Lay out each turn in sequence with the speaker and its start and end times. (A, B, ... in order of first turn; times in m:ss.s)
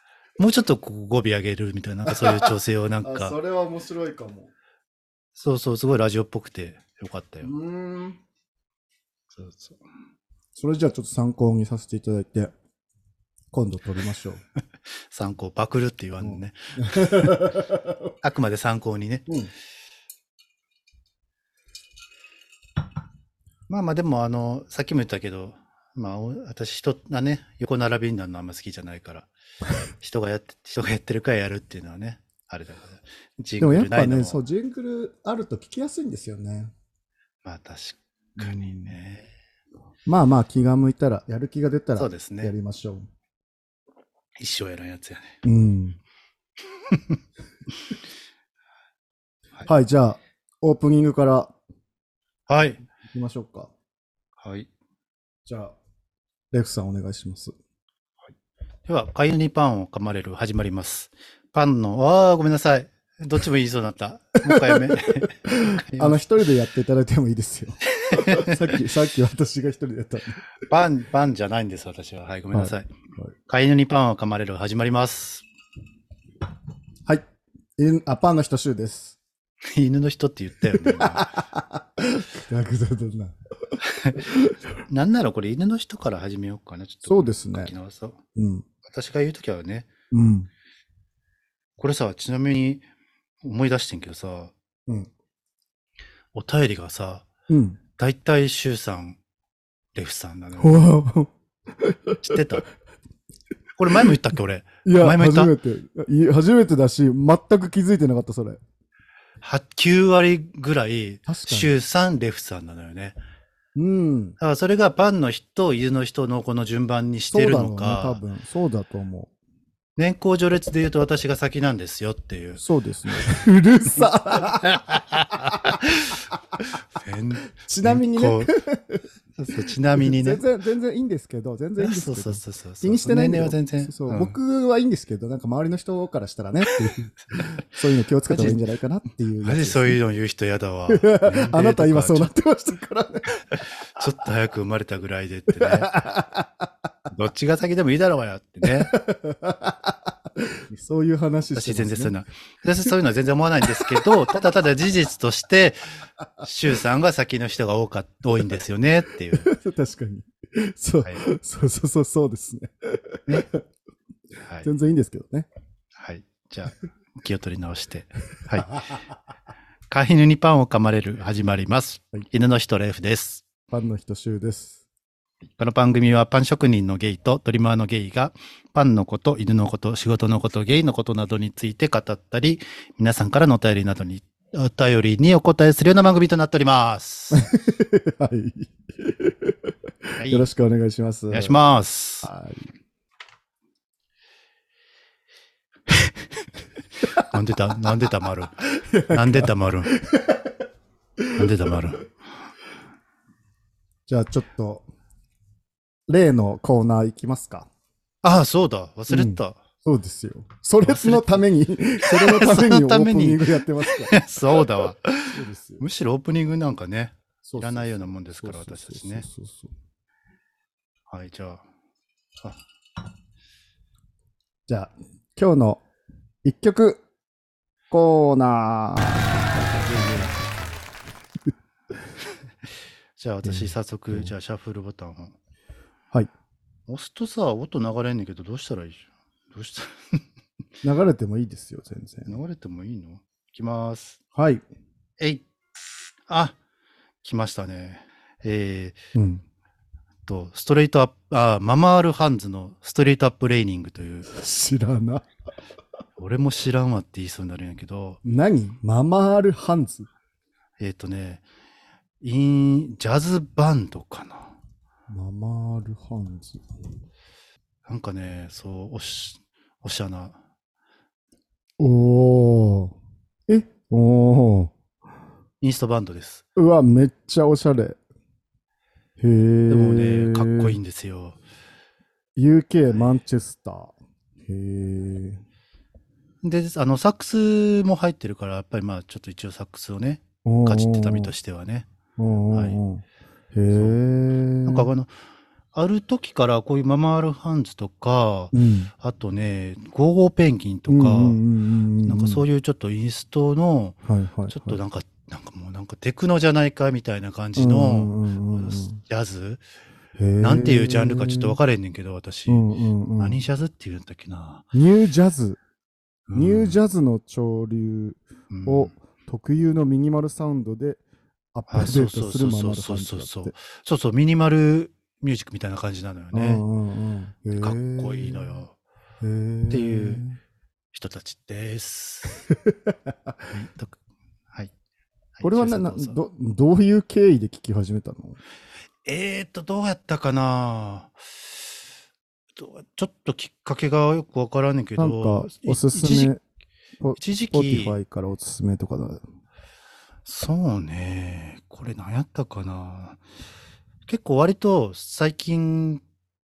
0:00.4-0:03.4 A
0:02.1-0:04.5 B
0:05.4-0:07.5 A
0:07.4-0:08.2 B
0:09.3-0:09.8 A
0:10.6-0:12.5 B
0:13.5-0:14.4 B
0:15.1-0:17.6 A
0:16.2-0:18.1 B
0:18.2-0:19.3 A
0:23.7-0:29.3 A
0:30.0-0:34.4 A
0:33.6-0:36.7 B
0:37.4-0:39.3 A
0:38.4-0:38.9 B
0:40.1-0:43.1 B
0:42.0-0:42.6 A
0:44.4-0:45.4 A
0:45.4-0:46.0 B
0:46.9-0:47.2 A
0:49.7-0:51.5 B
0:52.5-0:52.8 A
0:53.0-0:53.7 B
0:54.4-0:54.7 A
0:55.5-0:55.8 B
0:56.5-0:57.5 B
0:58.9-1:06.2 A
1:04.5-1:10.4 B
1:08.0-1:08.8 A
1:10.6-1:12.9 A
1:12.5-1:13.3 B
1:13.5-1:15.4 A
1:17.8-1:19.2 B
1:19.6-1:21.4 A
1:20.8-1:24.6 B
1:23.8-1:24.2 A
1:24.9-1:28.2 A
1:27.0-1:27.7 B
1:28.4-1:28.6 B
1:28.9-1:29.9 A
1:30.1-1:30.5 B
1:31.8-1:32.9 A
1:33.4-1:34.5 A
1:36.3-1:37.3 A
1:37.5-1:37.8 B
1:38.0-1:39.2 A
1:40.0-1:40.9 A
1:40.6-1:42.4 B
1:42.2-1:42.6 A
1:43.8-1:45.5 A
1:44.8-1:48.6 B
1:49.4-1:53.2 A
1:51.3-1:51.7 B
1:53.8-1:54.4 B
1:54.4-1:58.2 A
1:57.3-1:59.3 B
2:00.0-2:02.6 A
2:02.6-2:04.8 B
2:04.3-2:06.3 A
2:06.9-2:08.5 A
2:07.6-2:09.0 B
2:09.4-2:10.4 A
2:10.0-2:20.0 B
2:11.8-2:14.4 A
2:18.3-2:18.6 A
2:19.4-2:22.3 A
2:20.9-2:23.4 B
2:23.6-2:25.9 A
2:25.6-2:26.6 B
2:27.1-2:29.0 A
2:28.6-2:32.1 B
2:31.6-2:35.8 A
2:33.7-2:34.1 B
2:36.4-2:39.5 A
2:39.3-2:43.6 B
2:44.4-2:44.7 A
2:44.6-2:45.5 B
2:46.0-2:49.0 A
2:49.9-2:53.5 A
2:53.7-2:54.8 B
2:55.6-3:07.5 A
3:07.3-3:11.6 B
3:10.2-3:10.5 A
3:11.3-3:12.3 A
3:12.2-3:12.7 B
3:17.1-3:19.9 A
3:18.6-3:20.6 B
3:21.2-3:21.8 B
3:21.4-3:22.1 A
3:24.1-3:24.9 B
3:26.1-3:27.7 B
3:28.2-3:29.6 A
3:29.1-3:34.6 B
3:30.8-3:31.4 A
3:32.0-3:39.2 A
3:35.3-3:35.8 B
3:37.4-3:39.7 B
3:41.1-3:41.6 A
3:44.7-3:45.8 B
3:46.4-3:47.0 B
3:47.9-3:50.4 B
3:53.2-3:55.4 A
3:53.4-3:54.3 B
3:56.9-4:00.2 A
4:00.8-4:02.4 B
4:02.3-4:04.2 A
4:04.3-4:04.6 B
4:05.2-4:05.5 A
4:06.3-4:06.6 A
4:07.2-4:09.0 A
4:09.1-4:09.4 B
4:10.3-4:14.3 A
4:14.3-4:15.3 B
4:16.2-4:18.2 A
4:18.2-4:20.1 B
4:20.8-4:21.4 A
4:22.2-4:24.6 A
4:25.1-4:26.6 B
4:27.9-4:30.4 A
4:31.8-4:33.0 B
4:33.5-4:34.7 B
4:35.6-4:36.4 A
4:36.6-4:38.0 B
4:39.2-4:40.8 B
4:39.7-4:41.4 A
4:42.4-4:45.4 B
4:42.9-4:43.2 A
4:46.4-4:51.9 A
4:50.4-4:51.3 B
4:52.2-4:54.9 B
4:52.5-4:52.8 A
4:53.7-4:54.0 A
4:54.6-4:55.1 A
4:55.7-5:01.4 A
4:58.5-4:58.9 B
5:00.9-5:02.4 B
5:02.0-5:09.6 A
5:04.1-5:04.8 B
5:07.6-5:09.0 B
5:10.2-5:11.6 B
5:10.4-5:12.7 A
5:12.5-5:13.4 B
5:13.2-5:14.7 A
5:14.7-5:15.6 B
5:16.3-5:16.8 A
5:16.3-5:21.0 B
5:18.5-5:19.0 A
5:21.5-5:23.5 B
5:21.7-5:26.6 A
5:26.3-5:28.6 B
5:27.5-5:28.8 A
5:29.2-5:30.4 B
5:29.7-5:30.2 A
5:30.9-5:32.4 A
5:32.5-5:33.4 B
5:33.5-5:34.0 A
5:35.4-5:36.2 A
5:35.4-5:38.4 B
5:39.0-5:41.8 A
5:42.6-5:46.3 A
5:45.0-5:46.4 B
5:47.0-5:49.2 B
5:47.2-5:48.0 A
5:50.2-5:53.2 A
5:54.1-5:56.0 A